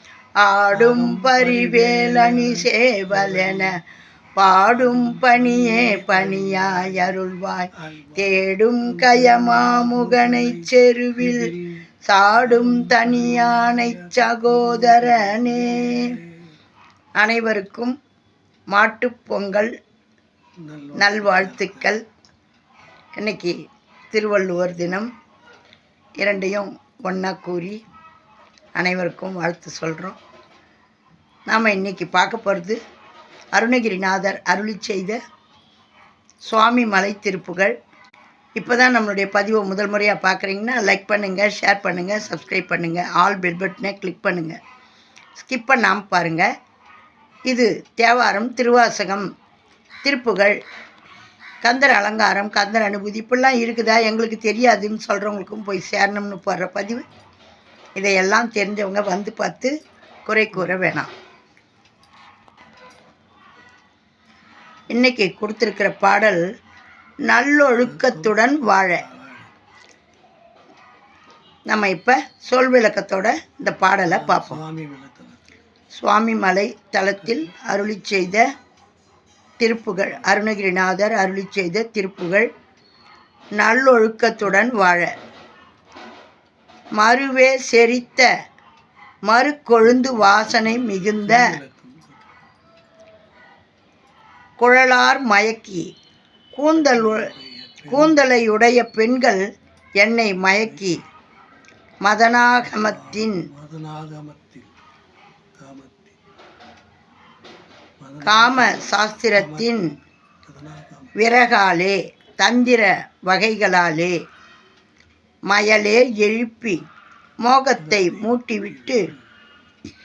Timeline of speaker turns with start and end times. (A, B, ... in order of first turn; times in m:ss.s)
0:00.4-0:03.8 A
0:00.8-0:02.6 B
0:04.4-0:16.2 A
0:05.0-0:06.8 B
0:09.0-0:10.6 B
0:11.3-0:11.8 B
0:12.6-0:16.2 B
0:17.2-0:17.9 A
0:18.7-0:19.7 A
0:20.6-0:21.6 B
0:20.9-0:22.0 A
0:23.2-0:23.6 A
0:24.1-0:25.1 A
0:26.2-0:27.8 A
0:28.7-0:30.2 A
0:31.5-0:32.8 A
0:33.5-0:35.2 A
0:36.5-0:37.8 A
0:38.6-0:44.6 A
0:45.4-0:46.5 A
0:47.5-0:49.3 A
0:50.0-0:50.6 A
0:51.6-0:57.0 A
0:58.0-0:59.7 A
1:00.2-1:01.1 A
1:04.9-1:06.4 A
1:07.2-1:09.0 A
1:11.7-1:14.6 A
1:14.3-1:15.4 B
1:16.0-1:18.4 A
1:19.6-1:22.5 A
1:23.6-1:25.1 A
1:27.0-1:28.3 A
1:29.3-1:31.6 A
1:31.4-1:32.1 B
1:34.6-1:35.9 A
1:36.6-1:37.3 A
1:37.1-1:38.1 B
1:37.9-1:39.4 A
1:40.0-1:41.0 A
1:42.0-1:43.5 A
1:42.8-1:44.7 B
1:45.6-1:46.2 B
1:48.0-1:48.9 B
1:48.2-1:49.9 A
1:50.5-1:51.1 B
1:51.2-1:54.2 A
1:55.5-1:56.8 A
1:57.4-1:59.1 A
1:58.0-1:58.3 B